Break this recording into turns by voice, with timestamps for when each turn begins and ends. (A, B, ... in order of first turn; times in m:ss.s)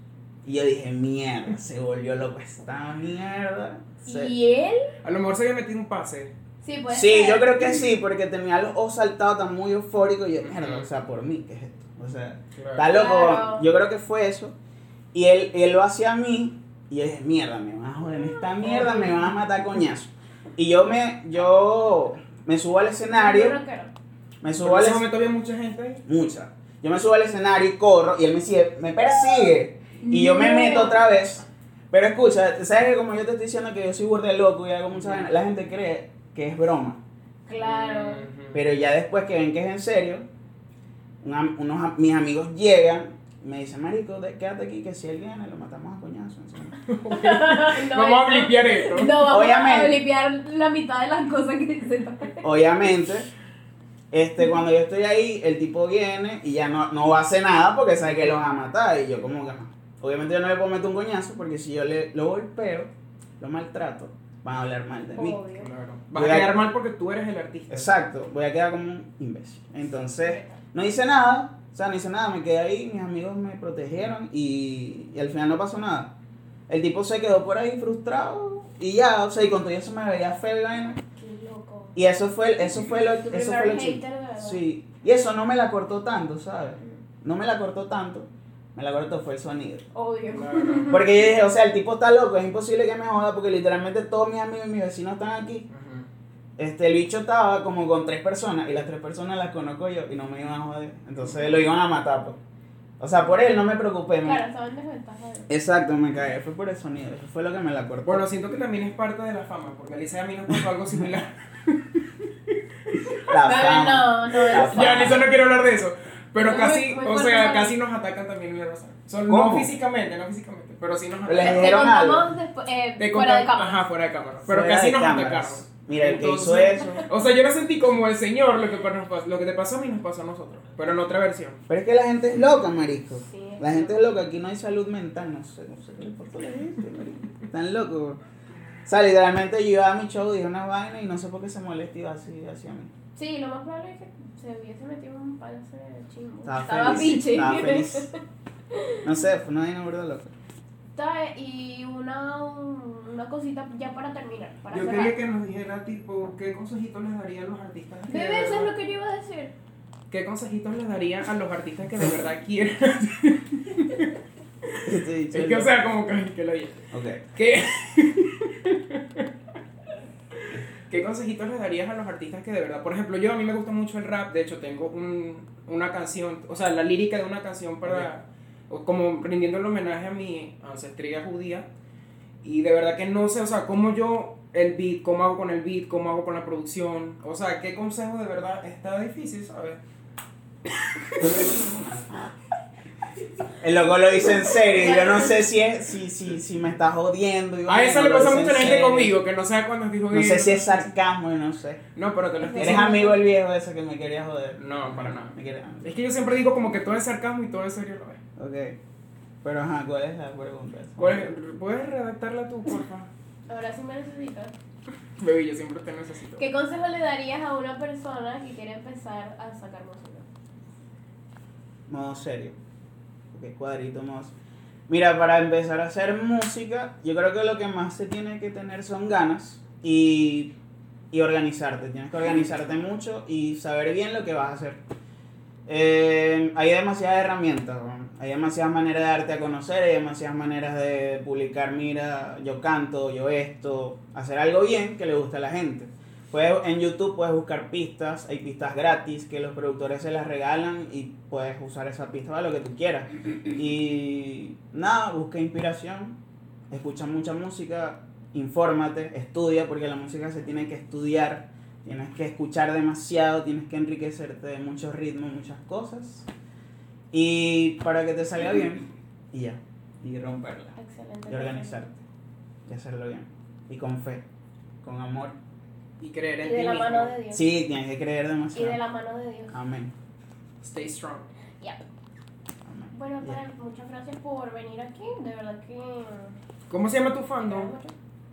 0:00.4-0:04.3 A
0:04.0-0:04.9 B
0:05.0-0:06.3 C
0:06.6-0:07.9 B
0:06.9-0:14.6 A
0:10.5-0:10.9 C
0:12.6-0:12.9 C
0:12.9-0:13.7 B
0:15.1-0:23.6 A
0:18.6-0:19.2 B
0:23.1-0:23.9 B
0:24.4-0:25.0 A
0:24.6-0:26.0 C
0:26.1-0:37.0 A
0:30.0-0:31.0 B
0:34.9-0:35.3 C
0:37.5-0:38.3 B
0:37.6-0:38.6 C
0:38.5-0:40.2 A
0:41.2-0:46.8 A
0:46.8-0:49.2 C
0:47.1-0:52.5 B
0:49.3-0:50.0 A
0:52.4-0:53.3 A
0:54.1-1:05.4 A
1:05.2-1:05.7 B
1:05.6-1:07.9 C
1:06.1-1:06.6 A
1:07.7-1:16.1 A
1:10.2-1:10.6 B
1:16.7-1:21.0 A
1:21.0-1:22.0 B
1:22.0-1:29.8 A
1:23.3-1:24.6 B
1:29.9-1:31.3 B
1:30.3-1:31.0 C
1:30.9-1:35.7 A
1:35.7-1:36.1 C
1:36.6-1:42.4 A
1:43.0-1:44.4 A
1:44.2-1:45.5 B
1:45.5-1:48.3 A
1:48.0-1:53.3 C
1:53.2-1:55.3 A
1:53.4-1:55.3 B
1:54.5-2:01.8 C
1:56.4-1:57.8 B
1:59.3-1:59.7 A
2:01.3-2:02.3 A
2:01.4-2:03.9 B
2:03.0-2:11.6 C
2:04.5-2:07.0 A
2:11.7-2:18.2 A
2:13.3-2:14.0 B
2:18.8-2:22.9 A
2:23.2-2:29.0 B
2:26.5-2:28.1 A
2:29.0-2:30.3 A
2:31.0-2:35.1 B
2:34.7-2:38.7 C
2:38.1-2:39.5 B
2:40.1-2:44.2 C
2:44.7-2:46.8 C
2:44.8-2:45.7 A
2:46.9-2:47.2 A
2:47.4-2:49.3 C
2:50.4-3:01.7 C
3:02.4-3:09.8 C
3:11.1-3:11.5 C
3:13.6-3:19.2 A
3:14.8-3:15.4 B
3:17.7-3:20.9 C
3:20.1-3:21.8 A
3:22.0-3:23.0 C
3:22.4-3:23.2 B
3:22.6-3:26.0 A
3:24.6-3:28.2 C
3:28.4-3:28.8 A
3:29.4-3:31.3 A
3:31.0-3:33.1 C
3:33.5-3:34.5 B
3:35.2-3:36.5 C
3:36.4-3:40.2 B
3:41.9-3:42.6 A
3:43.3-3:44.3 A
3:44.9-3:50.6 A
3:51.1-3:54.8 A
3:55.7-4:16.2 A
4:16.7-4:26.3 A
4:27.1-4:30.8 A
4:30.8-4:31.8 B
4:31.3-4:32.0 A
4:32.7-4:34.2 A
4:34.8-4:35.4 A
4:36.0-4:37.2 C
4:36.4-4:37.4 B
4:37.3-4:38.8 A
4:38.5-4:39.6 B
4:39.5-4:39.9 A
4:40.6-4:41.3 C
4:42.6-4:43.4 A
4:42.9-4:46.4 B
4:46.7-4:47.7 C
4:47.4-4:47.9 B